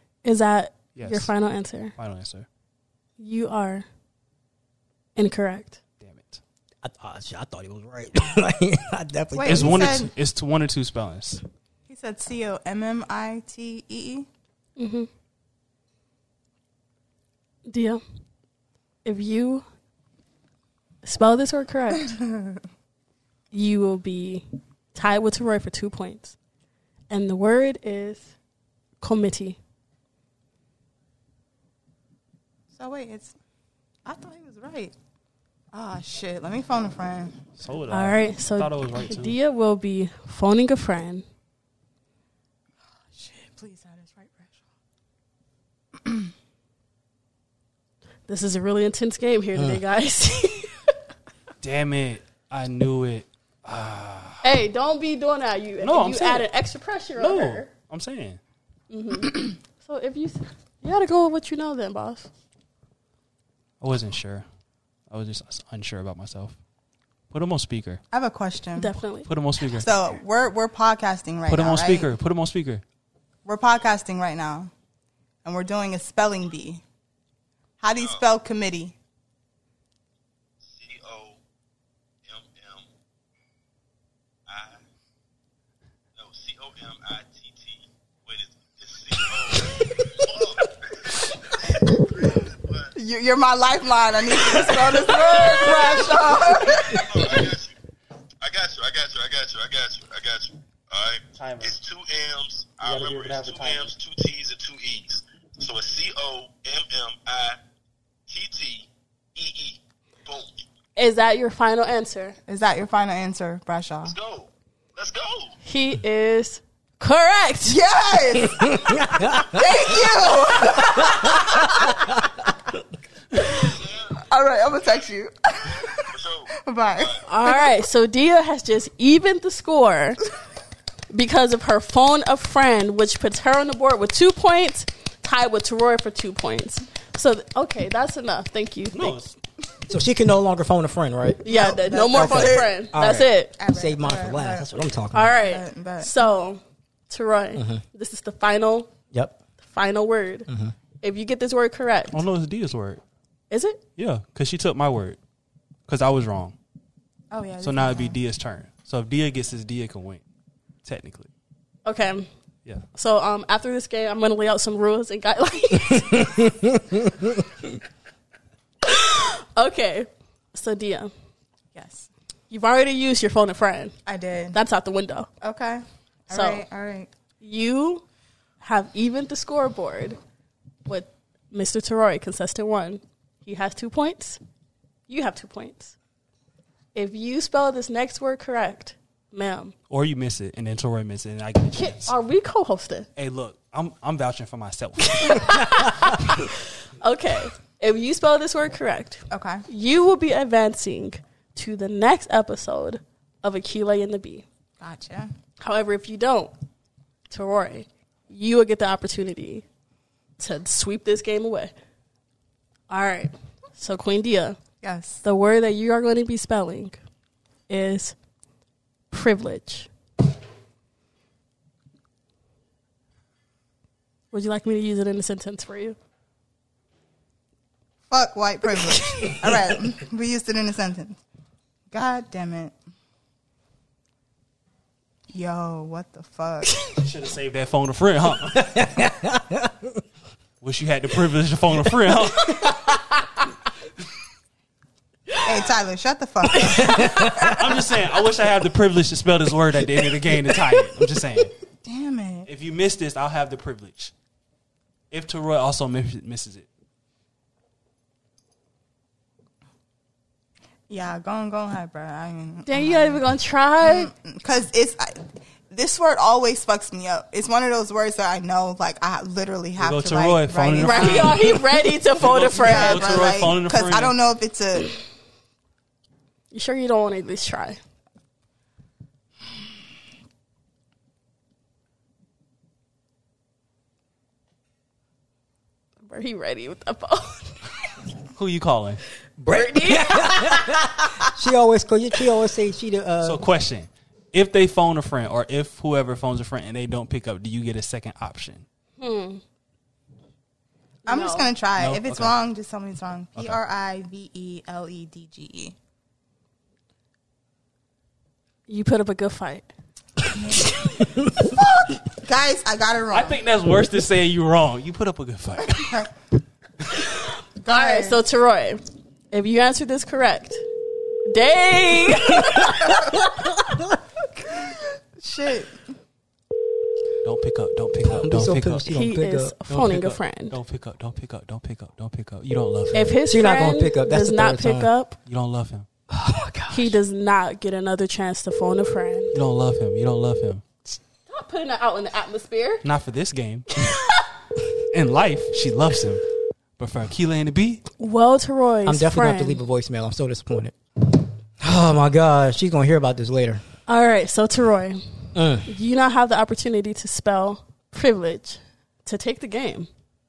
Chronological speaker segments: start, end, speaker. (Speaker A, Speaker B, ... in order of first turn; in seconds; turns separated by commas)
Speaker A: 0.2-1.9, Speaker B: 0.9-1.3, Speaker B: 1.9-2.5, Speaker A: 3.2-3.9, Speaker A: 5.2-5.8, Speaker B: 6.0-6.4, Speaker C: 6.8-10.1, Speaker D: 9.3-10.1, Speaker B: 9.5-11.4, Speaker D: 11.9-14.3, Speaker A: 14.8-15.1, Speaker A: 17.7-18.0, Speaker A: 19.0-19.6, Speaker A: 21.0-22.1, Speaker D: 22.1-22.6, Speaker A: 23.5-26.4, Speaker A: 27.1-28.3, Speaker A: 29.0-29.6, Speaker D: 32.7-33.3, Speaker D: 34.0-34.9, Speaker D: 35.7-37.4, Speaker B: 37.6-39.4, Speaker A: 37.9-41.2, Speaker D: 43.1-44.5, Speaker A: 48.3-50.9, Speaker C: 49.5-49.8, Speaker B: 51.6-54.4, Speaker A: 54.4-57.7, Speaker B: 55.8-56.5, Speaker B: 57.2-58.4, Speaker A: 58.9-62.3, Speaker B: 63.8-64.4, Speaker B: 65.1-66.6, Speaker B: 67.3-68.0, Speaker D: 68.1-68.9, Speaker A: 68.8-69.3, Speaker B: 69.2-69.9, Speaker D: 69.7-72.1, Speaker B: 71.5-72.8, Speaker D: 73.4-74.7, Speaker D: 75.4-76.8, Speaker D: 77.8-78.9, Speaker E: 77.9-78.2, Speaker E: 80.6-81.4, Speaker E: 82.2-82.9, Speaker E: 84.5-84.8, Speaker E: 86.1-92.9, Speaker D: 91.7-92.0, Speaker D: 92.9-97.5, Speaker A: 95.0-96.1, Speaker E: 96.6-97.8, Speaker E: 98.4-107.6, Speaker B: 101.4-101.8, Speaker B: 102.8-103.9, Speaker E: 108.3-110.5, Speaker A: 111.0-112.4, Speaker D: 112.5-114.2, Speaker E: 114.0-115.6, Speaker A: 115.6-117.8, Speaker D: 117.7-122.3, Speaker C: 118.7-119.6, Speaker C: 121.0-121.7, Speaker D: 123.3-127.2, Speaker E: 123.4-124.2, Speaker E: 125.7-127.2, Speaker A: 127.2-130.2, Speaker A: 131.1-139.2, Speaker B: 138.9-139.3, Speaker C: 139.9-145.4, Speaker A: 141.4-143.5, Speaker D: 141.4-142.8, Speaker D: 143.6-146.2, Speaker A: 145.1-148.9, Speaker C: 147.5-147.8, Speaker C: 149.1-149.4, Speaker A: 149.6-150.5, Speaker C: 150.5-150.7, Speaker A: 151.0-152.2, Speaker B: 152.1-153.0, Speaker A: 153.5-153.8, Speaker B: 154.0-155.2, Speaker B: 155.9-156.5, Speaker D: 157.3-158.2, Speaker B: 157.6-160.2, Speaker B: 160.8-161.3, Speaker A: 161.8-162.3, Speaker A: 162.9-166.5, Speaker C: 166.2-167.3, Speaker A: 168.8-171.1, Speaker D: 171.7-172.1, Speaker A: 172.5-173.9, Speaker D: 174.1-174.6, Speaker A: 174.5-175.3, Speaker D: 175.4-177.1, Speaker A: 176.3-176.6, Speaker A: 177.4-178.0, Speaker A: 178.6-180.2, Speaker A: 180.8-184.4, Speaker A: 185.1-185.9, Speaker A: 186.9-189.7, Speaker B: 189.9-192.1, Speaker A: 191.7-193.1, Speaker B: 193.2-196.1, Speaker A: 195.0-204.4, Speaker D: 199.3-199.6, Speaker D: 204.8-205.3, Speaker A: 205.6-206.5, Speaker A: 207.3-209.6, Speaker A: 210.4-211.7, Speaker A: 212.9-214.6, Speaker D: 214.8-215.2, Speaker A: 215.2-217.0, Speaker A: 217.7-218.1, Speaker A: 219.1-219.9, Speaker A: 224.3-226.0, Speaker D: 228.1-231.2, Speaker D: 231.9-232.7, Speaker D: 235.3-236.8, Speaker B: 236.9-238.7, Speaker C: 238.5-240.0, Speaker B: 240.6-242.9, Speaker D: 245.4-247.5, Speaker A: 246.6-247.6, Speaker C: 246.8-247.5, Speaker B: 247.4-251.5, Speaker D: 251.8-252.5, Speaker B: 252.4-254.1, Speaker B: 255.1-256.6, Speaker D: 260.9-263.2, Speaker A: 262.6-264.1, Speaker D: 263.8-271.5, Speaker B: 269.8-274.1, Speaker A: 270.8-273.3, Speaker D: 272.5-274.9, Speaker A: 276.5-277.8, Speaker A: 286.0-287.7, Speaker B: 288.3-289.0, Speaker C: 289.4-293.4, Speaker A: 289.5-290.9, Speaker B: 293.2-298.6, Speaker A: 299.0-299.4, Speaker A: 301.0-301.5, Speaker D: 301.1-305.7, Speaker B: 301.8-302.4, Speaker A: 308.7-309.7, Speaker D: 310.3-313.4, Speaker B: 313.1-316.1, Speaker D: 315.7-316.1, Speaker A: 317.1-320.6, Speaker D: 317.6-318.2, Speaker A: 321.2-323.2, Speaker C: 322.3-324.0, Speaker D: 324.5-325.8, Speaker B: 327.2-328.9, Speaker C: 328.1-329.8, Speaker A: 328.9-330.5, Speaker B: 329.7-333.1, Speaker A: 332.9-335.2, Speaker C: 333.2-334.9, Speaker B: 335.2-335.9, Speaker C: 336.1-337.0, Speaker A: 336.7-339.3, Speaker B: 339.3-340.8, Speaker A: 341.3-342.8, Speaker B: 342.8-343.8, Speaker A: 343.8-344.2, Speaker B: 344.8-347.8, Speaker A: 348.0-349.6, Speaker C: 348.9-353.6, Speaker A: 353.9-355.0, Speaker C: 355.3-355.7, Speaker A: 355.6-359.9